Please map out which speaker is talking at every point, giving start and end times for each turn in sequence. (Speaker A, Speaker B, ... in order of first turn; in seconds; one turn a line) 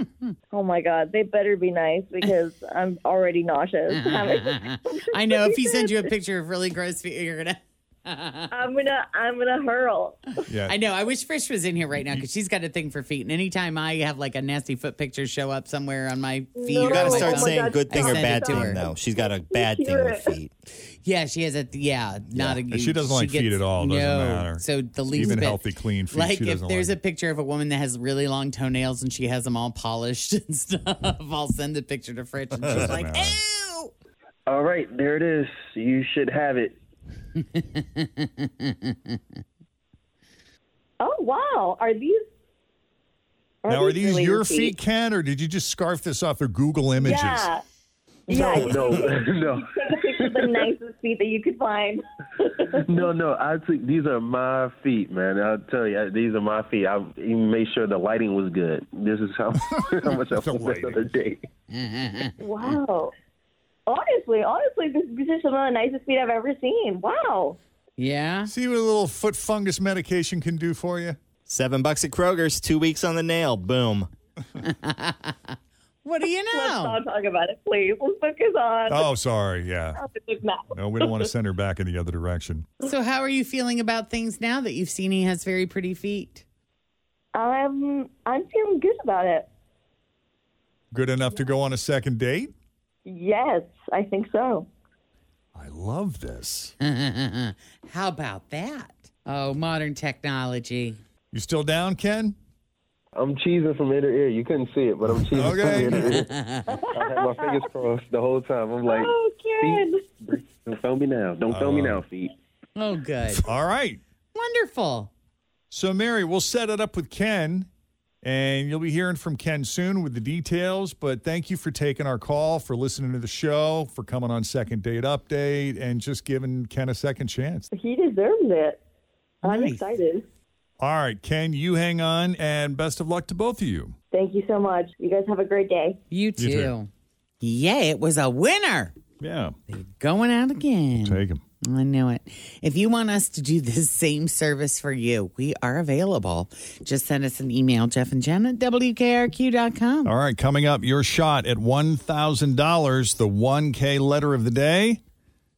Speaker A: 0.5-6.0
Speaker B: 3.9-8.5
Speaker A: 8.5-10.4
Speaker C: 10.5-10.8
Speaker B: 10.6-18.8
Speaker A: 16.6-20.3
Speaker D: 16.8-20.5
Speaker B: 20.9-33.9
Speaker D: 22.3-22.6
Speaker C: 22.7-27.0
Speaker C: 32.6-33.4
Speaker E: 34.5-36.8
Speaker B: 37.5-38.9
Speaker A: 41.0-42.2
Speaker A: 43.6-44.7
Speaker C: 43.7-47.5
Speaker A: 47.0-47.6
Speaker A: 48.3-53.1
Speaker C: 48.3-49.1
Speaker E: 48.3-50.6
Speaker E: 52.9-61.4
Speaker C: 59.7-61.1
Speaker B: 61.7-62.8
Speaker A: 62.4-63.1
Speaker A: 63.9-67.6
Speaker B: 68.0-68.5
Speaker C: 68.5-71.2
Speaker D: 71.5-74.1
Speaker B: 74.7-75.3
Speaker B: 76.0-77.0
Speaker A: 76.5-79.0
Speaker C: 78.9-80.0
Speaker A: 80.0-81.2
Speaker C: 80.7-82.7
Speaker B: 82.8-86.4
Speaker A: 87.3-89.5
Speaker C: 90.9-92.5
Speaker A: 93.0-94.7
Speaker C: 95.5-96.7
Speaker B: 96.8-101.0
Speaker C: 101.3-102.3
Speaker E: 103.1-106.3
Speaker C: 105.1-106.3
Speaker B: 105.9-106.7
Speaker A: 106.7-107.6
Speaker E: 106.9-112.3
Speaker A: 108.9-109.9
Speaker C: 111.5-112.0
Speaker B: 112.8-113.4
Speaker C: 113.3-114.0
Speaker B: 114.3-115.1
Speaker C: 115.7-117.7
Speaker C: 118.2-127.7
Speaker A: 127.7-128.8
Speaker B: 129.4-129.8
Speaker A: 129.4-130.2
Speaker C: 130.8-133.9
Speaker A: 134.1-136.0
Speaker B: 136.1-136.9
Speaker C: 136.3-136.7
Speaker B: 137.4-138.9
Speaker C: 139.2-139.6
Speaker B: 139.7-150.1
Speaker C: 141.0-141.4
Speaker C: 150.0-155.0